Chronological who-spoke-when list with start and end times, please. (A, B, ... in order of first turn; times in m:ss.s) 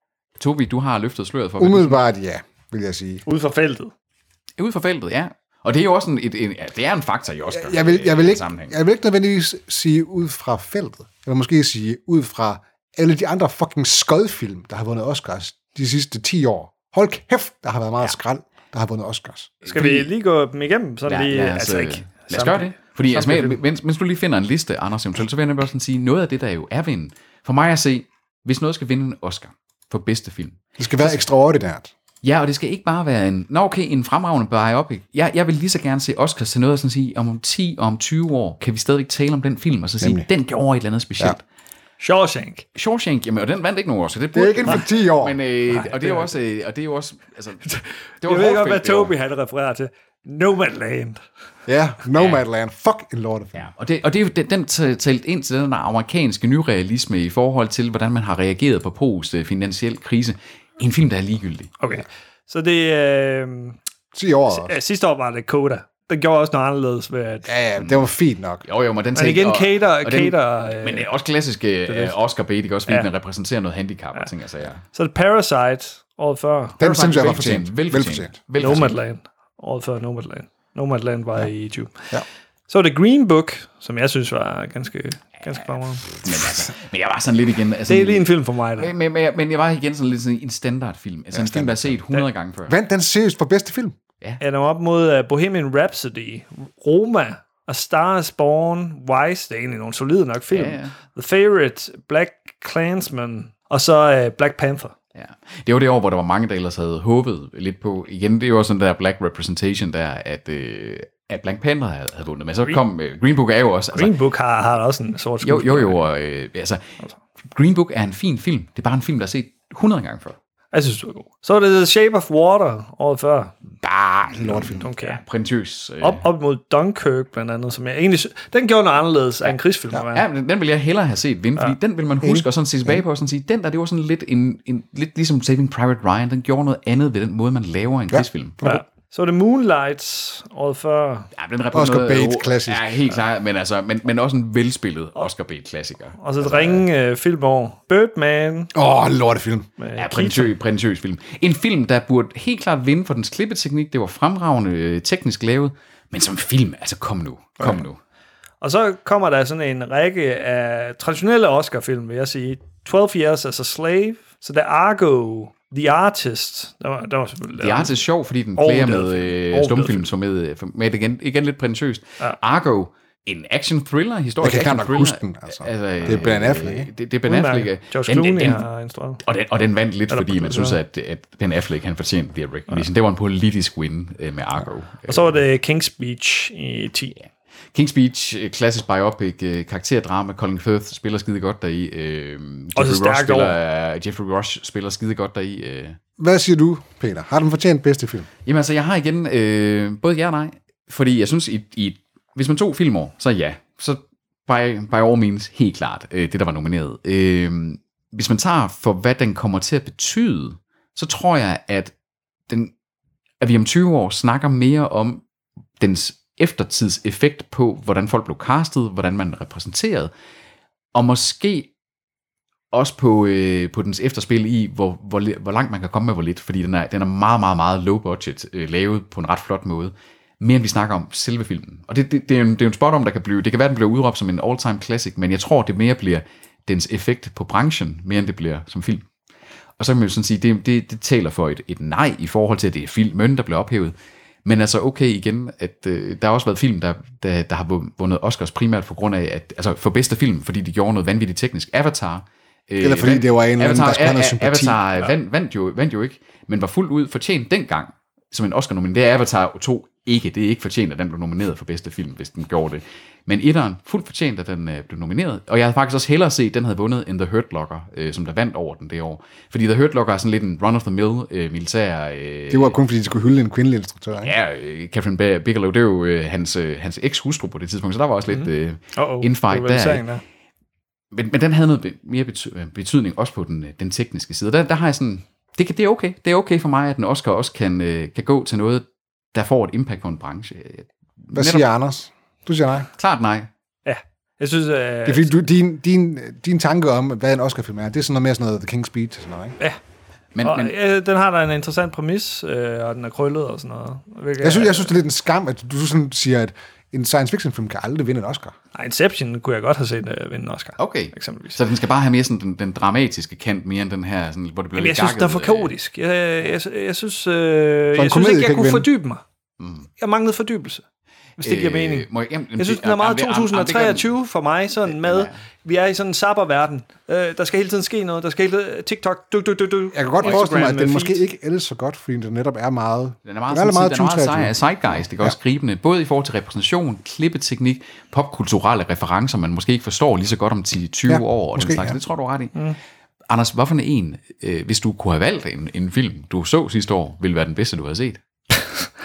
0:00.4-0:02.0 A
0:01.6-0:03.2 B
0:03.3-0:03.9 C
0:04.6-0:08.8 A
0:07.5-0:19.6 B
0:19.6-0:20.1 A
0:19.7-0:23.6 C
0:21.1-0:31.1 A
0:30.8-0:31.9 B
0:32.2-0:41.4 A
0:40.0-0:40.3 B
0:42.0-0:42.6 C
0:42.8-0:49.1 A
0:44.3-0:45.4 B
0:45.7-0:46.3 C
0:48.2-0:51.2 C
0:51.7-0:53.7 B
0:52.2-0:52.4 A
0:53.6-1:01.7 A
1:01.8-1:03.8 C
1:04.1-1:04.8 B
1:04.5-1:07.5 C
1:07.4-1:08.6 B
1:07.8-1:08.1 A
1:08.6-1:14.8 A
1:09.2-1:11.1 C
1:11.9-1:12.2 C
1:14.9-1:16.8 C
1:16.8-1:18.8 B
1:16.8-1:19.0 A
1:18.6-1:22.1 C
1:22.7-1:26.1 C
1:26.1-1:32.8 A
1:27.9-1:28.9 C
1:31.3-1:32.0 B
1:32.7-1:34.0 B
1:34.4-1:44.9 C
1:40.5-1:41.0 A
1:45.2-1:54.2 A
1:53.9-1:56.0 C
1:55.4-1:56.8 A
1:57.4-2:00.4 A
2:00.7-2:03.5 C
2:03.8-2:06.2 A
2:04.4-2:04.8 B
2:04.8-2:05.2 C
2:06.0-2:10.2 C
2:10.1-2:18.6 A
2:12.2-2:13.0 B
2:18.1-2:18.8 B
2:18.6-2:21.3 C
2:21.4-2:26.8 A
2:21.7-2:23.0 B
2:26.2-2:28.7 C
2:28.7-2:29.7 B
2:29.8-2:30.5 C
2:30.0-2:38.0 A
2:38.6-2:48.0 C
2:47.6-2:58.6 A
2:48.6-2:50.1 C
2:54.4-2:56.9 B
2:57.3-2:59.2 C
2:59.2-3:05.4 A
3:00.1-3:00.8 C
3:05.1-3:07.2 C
3:07.7-3:16.0 A
3:12.8-3:13.6 C
3:16.2-3:18.3 B
3:18.4-3:31.9 A
3:33.4-3:35.2 A
3:35.8-3:40.1 A
3:40.9-3:41.7 A
3:42.7-3:59.0 A
3:59.8-4:03.9 A
4:04.4-4:32.8 A
4:12.8-4:14.8 B
4:32.5-4:34.3 B
4:34.2-4:40.1 A
4:38.3-4:40.2 C
4:41.1-4:51.6 A
4:51.3-4:52.9 B
4:53.0-4:53.5 A
4:53.9-4:55.3 C
4:55.1-4:59.6 B
5:00.4-5:00.7 A
5:00.4-5:04.9 C
5:04.4-5:08.6 B
5:08.8-5:11.6 C
5:10.8-5:15.7 A
5:14.8-5:19.2 C
5:17.9-5:18.9 B
5:19.6-5:19.9 A
5:20.0-5:20.8 C
5:21.4-5:31.2 C
5:21.4-5:24.1 A
5:24.9-5:25.4 A
5:29.9-5:34.6 B
5:33.2-5:42.6 A
5:41.1-5:42.0 B
5:43.3-5:48.2 A